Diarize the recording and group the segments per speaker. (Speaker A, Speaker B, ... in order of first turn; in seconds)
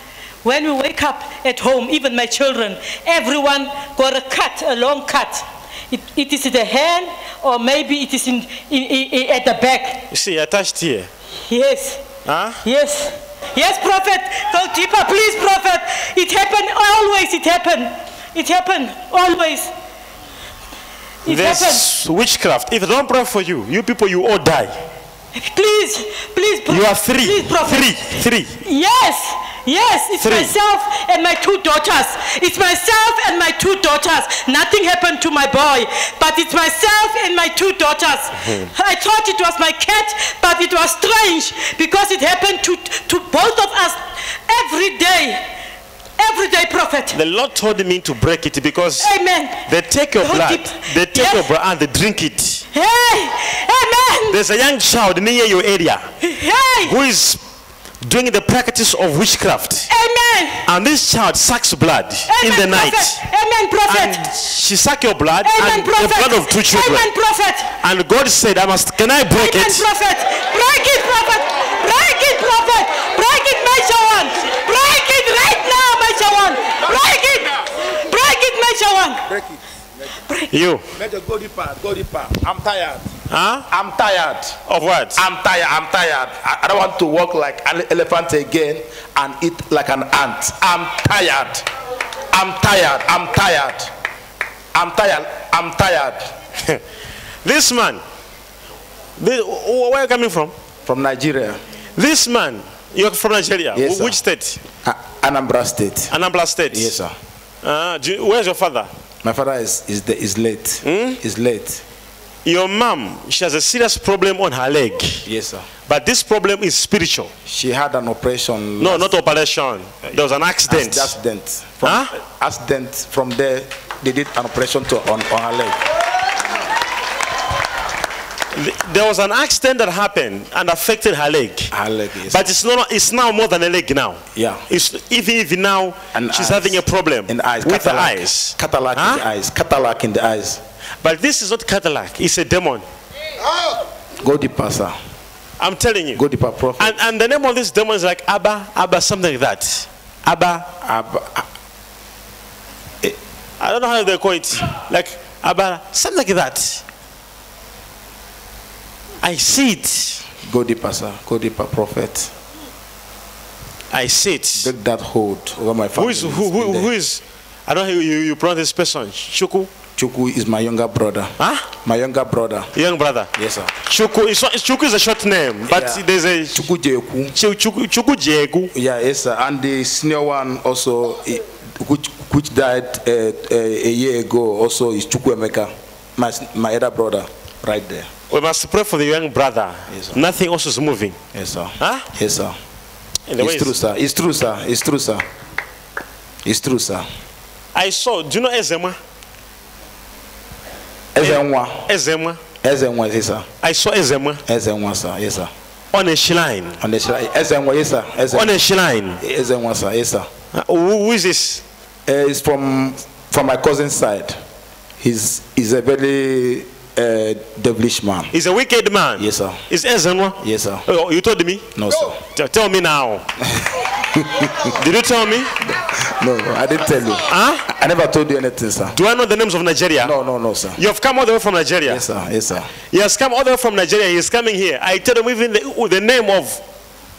Speaker A: 0.4-10.1, 11.5-12.0, 12.6-19.7, 21.2-21.9, 25.3-28.0, 28.6-45.4, 46.2-47.1, 49.0-49.6, 50.2-51.5, 52.7-54.4, 56.2-56.9, 59.9-60.6, 62.3-64.2, 65.4-67.7, 69.3-79.2
Speaker B: 10.1-11.1, 12.2-12.6, 21.3-24.7, 26.7-28.5, 30.2-30.5, 38.4-38.7, 47.1-49.1, 49.6-52.6, 54.3-56.1, 56.8-57.4, 58.0-59.9, 60.6-63.2, 63.9-67.1, 67.8-69.9, 80.5-80.8, 83.3-83.7, 84.7-85.2, 97.4-98.0, 99.2-100.5, 102.0-104.6, 106.1-106.9, 107.6-108.9, 110.8-111.2, 112.4-115.2, 115.9-117.3, 118.8-121.1, 121.8-122.1, 128.5-131.7, 132.3-139.2, 141.0-142.8, 145.6-146.2, 146.8-150.7, 153.6-156.8, 159.2-160.2, 163.9-164.7, 165.9-169.7, 171.4-171.7, 172.7-173.3, 173.8-176.7, 177.3-178.7, 188.3-191.2, 191.8-192.1, 193.3-193.7, 197.7-199.0, 201.2-202.4, 203.6-204.4, 205.9-206.8, 208.3-209.2, 210.5-211.6, 218.3-221.7, 222.3-223.2, 224.7-225.6, 227.3-227.6, 228.9-230.1, 230.8-232.0, 232.9-236.6
Speaker C: 79.3-79.6, 81.0-83.0, 83.7-84.6, 85.2-91.7, 92.3-93.9, 94.7-96.3, 100.8-101.6, 103.7-104.2, 104.8-106.1, 106.7-107.1, 109.2-111.8, 115.2-115.7, 117.5-119.1, 120.7-125.8, 131.7-132.5, 134.3-134.6, 136.1-140.6, 144.2-144.9, 146.1-146.9, 150.8-151.5, 160.4-162.3, 164.6-166.9, 169.9-172.7, 173.3-173.7, 175.7-177.3, 178.7-188.1, 189.9-190.2, 191.3-192.6, 193.4-195.2, 196.4-197.1, 201.1-201.9, 202.6-203.5, 204.5-205.5, 206.8-208.6, 209.2-210.3, 212.1-214.4, 215.0-218.3, 219.2-219.6, 220.4-220.8, 221.7-222.2, 223.5-224.7, 225.6-228.9, 230.0-230.8, 231.9-232.7